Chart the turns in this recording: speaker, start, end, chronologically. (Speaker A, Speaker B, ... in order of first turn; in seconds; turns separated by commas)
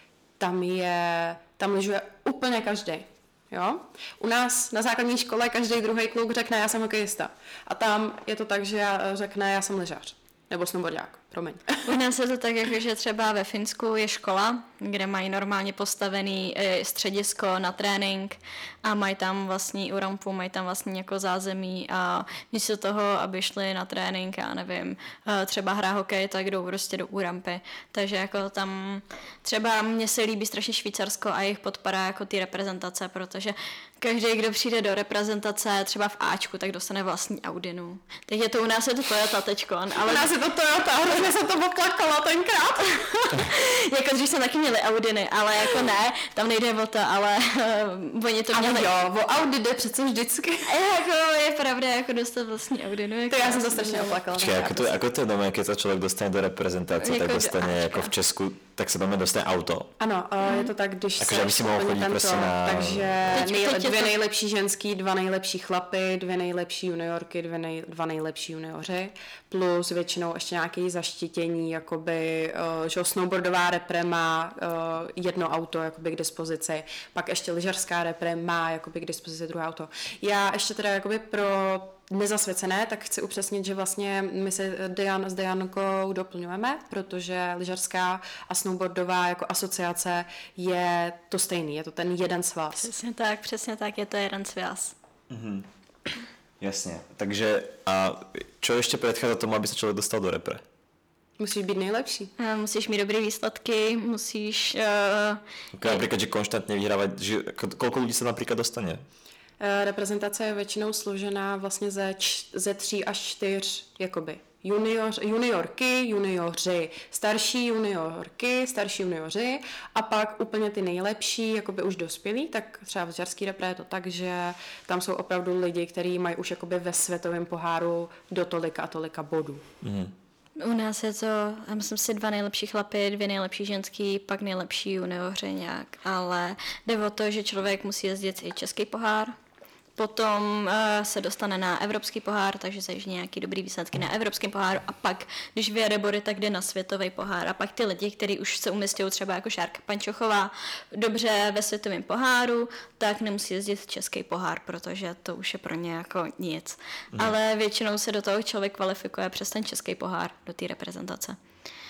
Speaker A: 0.4-11.9, Speaker B: 11.8-40.3, Speaker A: 40.0-43.2, Speaker B: 43.3-48.9, Speaker A: 48.5-50.7, Speaker B: 50.7-54.2, Speaker A: 53.3-55.0, Speaker C: 54.3-59.9, Speaker B: 57.0-58.1, Speaker A: 60.0-92.9, Speaker B: 60.4-60.7, Speaker C: 61.2-63.4, Speaker B: 63.3-64.2, Speaker B: 92.8-94.9, Speaker C: 95.3-95.7, Speaker C: 96.6-100.6, Speaker A: 101.4-102.3, Speaker B: 102.4-106.0, Speaker C: 105.7-109.0, Speaker A: 109.6-129.6, Speaker C: 129.8-130.1, Speaker B: 130.6-139.3, Speaker B: 139.9-161.4